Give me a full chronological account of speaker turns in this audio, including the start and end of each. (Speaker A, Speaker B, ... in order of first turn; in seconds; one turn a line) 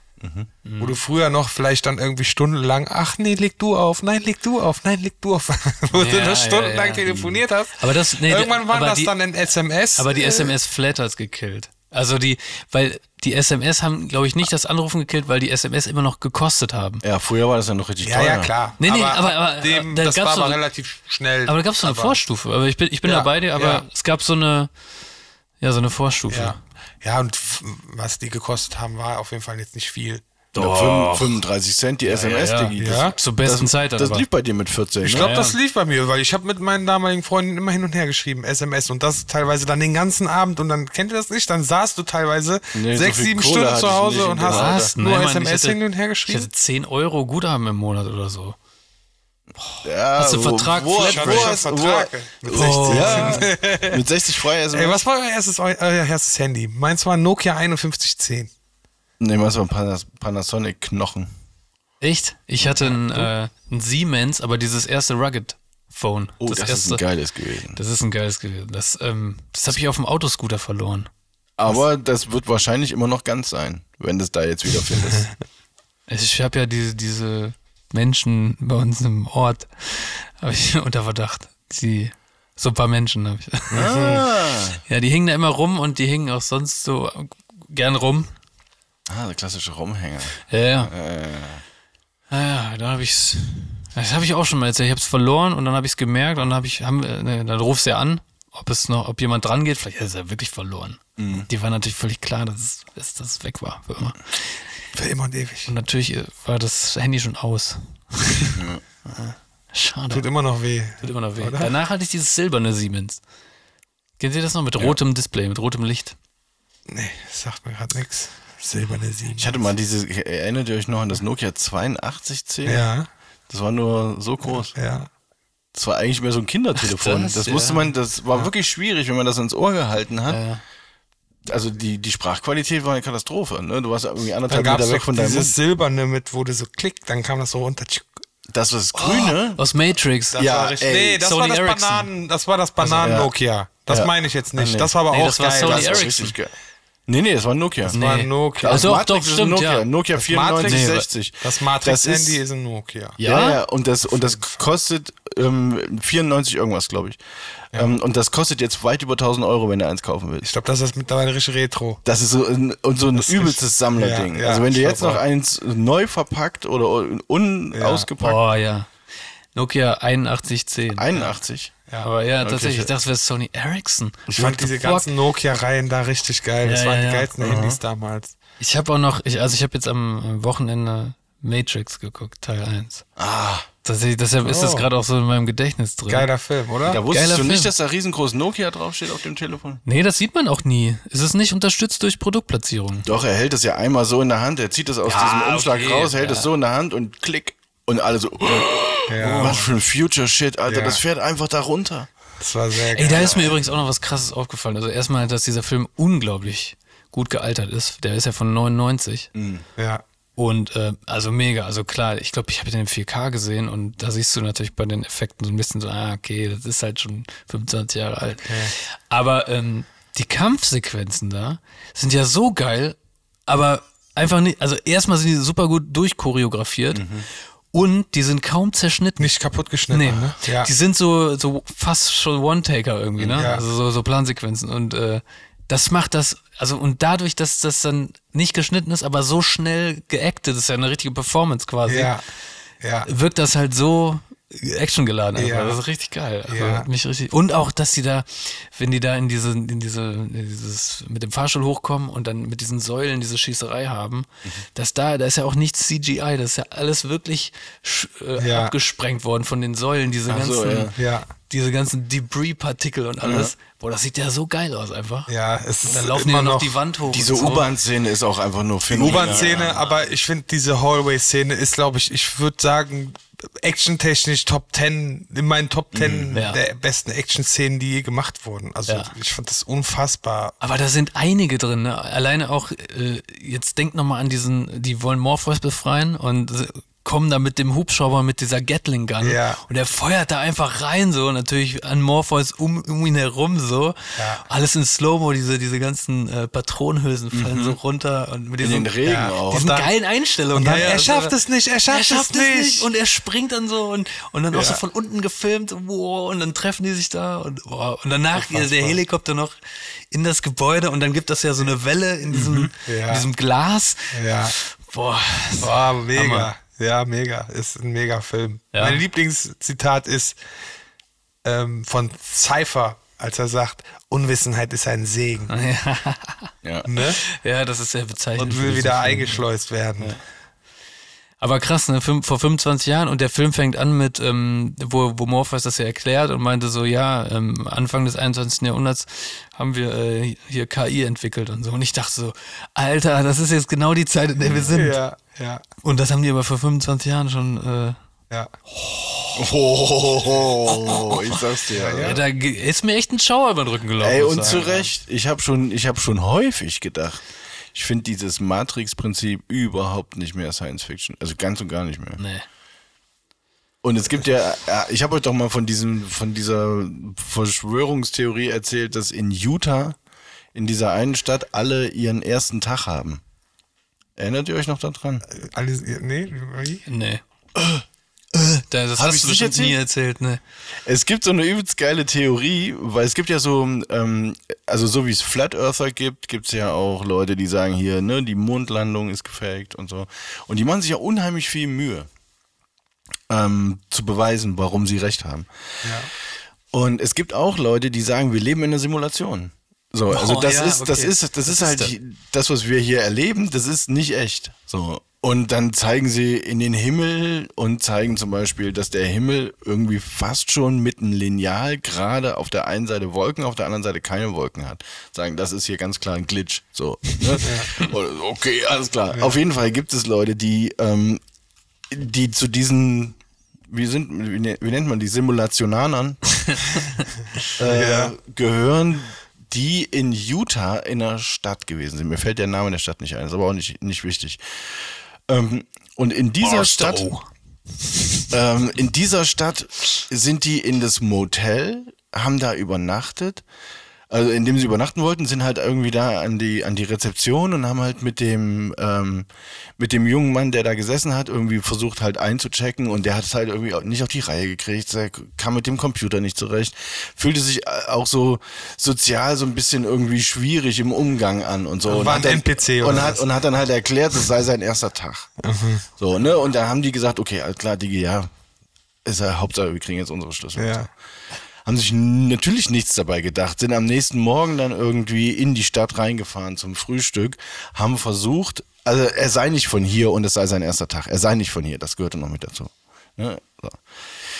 Speaker A: 0.2-0.5
Speaker B: 0.6-1.0
Speaker C: 0.8-10.5
Speaker B: 5.9-7.1
Speaker A: 7.1-7.3
Speaker B: 7.8-9.1
Speaker B: 10.0-17.0
Speaker A: 17.0-18.5
Speaker C: 18.0-22.2
Speaker B: 18.8-20.6
Speaker B: 21.4-24.7
Speaker C: 23.0-23.8
Speaker B: 25.6-26.6
Speaker C: 26.3-30.2
Speaker B: 30.5-31.4
Speaker A: 30.5-35.3
Speaker B: 32.0-34.2
Speaker C: 32.8-33.1
Speaker C: 35.0-46.5
Speaker B: 35.1-35.5
Speaker A: 42.7-44.9
Speaker B: 44.5-48.6
Speaker B: 49.6-51.6
Speaker A: 49.8-55.0
Speaker C: 50.9-54.0
Speaker B: 52.5-53.5
Speaker C: 54.7-58.5
Speaker A: 59.2-61.3
Speaker B: 62.0-67.0
Speaker A: 66.4-67.8
Speaker B: 67.7-71.1
Speaker A: 71.6-75.3
Speaker B: 76.1-83.9
Speaker A: 83.7-84.8
Speaker C: 83.8-84.2
Speaker B: 84.8-88.3
Speaker A: 89.1-91.6
Speaker B: 90.5-90.9
Speaker B: 92.3-104.6
Speaker A: 101.2-101.5
Speaker C: 104.9-105.7
Speaker B: 105.7-110.2
Speaker A: 108.5-108.8
Speaker C: 110.1-111.7
Speaker B: 111.0-113.2
Speaker B: 114.2-116.2
Speaker C: 116.9-119.6
Speaker A: 119.3-122.8
Speaker C: 122.6-123.1
Speaker A: 123.5-124.7
Speaker C: 124.7-125.1
Speaker A: 125.7-130.4
Speaker B: 126.8-127.9
Speaker B: 130.3-130.6
Speaker A: 131.5-135.5
Speaker C: 134.5-138.2
Speaker A: 138.5-139.6
Speaker B: 139.0-140.4
Speaker C: 140.3-146.1
Speaker A: 140.3-141.2
Speaker B: 141.2-142.1
Speaker A: 142.9-143.3
Speaker A: 143.9-144.9
Speaker B: 145.1-146.3
Speaker A: 145.6-146.5
Speaker A: 147.1-148.0
Speaker C: 147.9-148.9
Speaker B: 147.9-149.8
Speaker A: 148.6-152.4
Speaker C: 150.2-153.2
Speaker B: 150.6-151.0
Speaker B: 153.2-153.6
Speaker A: 153.2-157.2
Speaker C: 154.1-154.6
Speaker A: 157.7-160.5
Speaker C: 160.4-162.0
Speaker A: 162.0-168.4
Speaker C: 163.1-165.2
Speaker C: 167.7-168.1
Speaker B: 168.2-168.9
Speaker B: 169.5-171.2
Speaker A: 170.9-171.7
Speaker B: 172.0-175.1
Speaker A: 172.4-172.9
Speaker C: 174.3-178.3
Speaker B: 176.6-177.3
Speaker A: 177.4-177.8
Speaker B: 178.6-183.0
Speaker A: 183.2-183.7
Speaker B: 183.8-186.3
Speaker C: 184.4-184.9
Speaker C: 186.1-187.0
Speaker A: 186.8-189.8
Speaker B: 187.1-187.7
Speaker B: 189.8-193.1
Speaker A: 193.0-202.1
Speaker B: 195.0-196.5
Speaker C: 199.1-199.6
Speaker B: 199.2-199.7
Speaker C: 200.7-201.0
Speaker C: 202.4-203.3
Speaker B: 202.9-209.3
Speaker A: 203.1-203.6
Speaker A: 209.3-209.6
Speaker C: 209.8-210.0
Speaker B: 210.4-227.1
Speaker C: 218.4-218.7
Speaker A: 226.9-227.3
Speaker B: 227.7-229.3
Speaker C: 229.2-230.7
Speaker B: 229.9-242.1
Speaker A: 233.2-233.4
Speaker C: 233.4-233.6
Speaker C: 241.9-242.2
Speaker C: 242.8-243.1
Speaker B: 243.1-260.9
Speaker C: 245.3-245.8
Speaker C: 246.5-246.9
Speaker C: 258.4-258.7
Speaker A: 260.3-260.9
Speaker C: 260.9-261.3
Speaker B: 261.5-265.3
Speaker A: 263.2-263.5
Speaker C: 265.3-266.8
Speaker B: 265.9-267.7
Speaker A: 267.1-269.8
Speaker C: 268.9-280.5
Speaker B: 268.9-269.9
Speaker A: 275.9-276.3
Speaker B: 276.3-276.6
Speaker B: 278.9-279.1
Speaker B: 280.6-298.9
Speaker C: 289.2-289.6
Speaker C: 294.2-294.4
Speaker A: 297.3-297.8
Speaker A: 298.6-299.7
Speaker C: 299.1-299.9
Speaker B: 299.5-301.3
Speaker C: 300.5-302.9
Speaker B: 301.9-309.5
Speaker C: 304.5-304.8
Speaker C: 308.4-309.0
Speaker B: 310.1-316.5
Speaker A: 312.3-312.7
Speaker C: 312.9-313.2
Speaker C: 314.1-314.5
Speaker C: 315.6-320.4
Speaker B: 318.7-319.0
Speaker C: 321.4-325.5
Speaker B: 325.5-329.4
Speaker A: 326.6-326.9
Speaker C: 326.9-327.2
Speaker C: 328.4-330.1
Speaker B: 331.4-345.0
Speaker A: 344.4-344.7
Speaker C: 344.7-345.6
Speaker B: 345.8-348.0
Speaker B: 348.7-349.4
Speaker A: 349.3-352.2
Speaker B: 350.6-351.4
Speaker C: 351.8-352.2
Speaker B: 351.9-354.9
Speaker A: 354.0-357.2
Speaker A: 357.7-362.2
Speaker B: 362.2-362.4
Speaker A: 363.8-370.0
Speaker A: 370.5-373.2
Speaker A: 374.2-375.2
Speaker C: 375.3-376.8
Speaker B: 376.9-377.2
Speaker A: 377.6-377.8
Speaker B: 378.3-380.4
Speaker A: 379.0-379.8
Speaker A: 380.9-392.1
Speaker A: 393.3-395.5
Speaker C: 395.8-396.1
Speaker A: 396.7-421.2
Speaker B: 400.1-401.9
Speaker C: 417.4-417.7
Speaker A: 421.9-423.2
Speaker A: 423.7-426.2
Speaker A: 427.6-437.1
Speaker C: 427.6-428.1
Speaker B: 436.4-437.3
Speaker A: 438.3-443.4
Speaker A: 444.1-465.3
Speaker C: 461.9-463.2
Speaker C: 465.4-465.8
Speaker A: 466.0-468.3
Speaker A: 469.0-470.9
Speaker C: 470.6-470.9
Speaker A: 471.6-483.8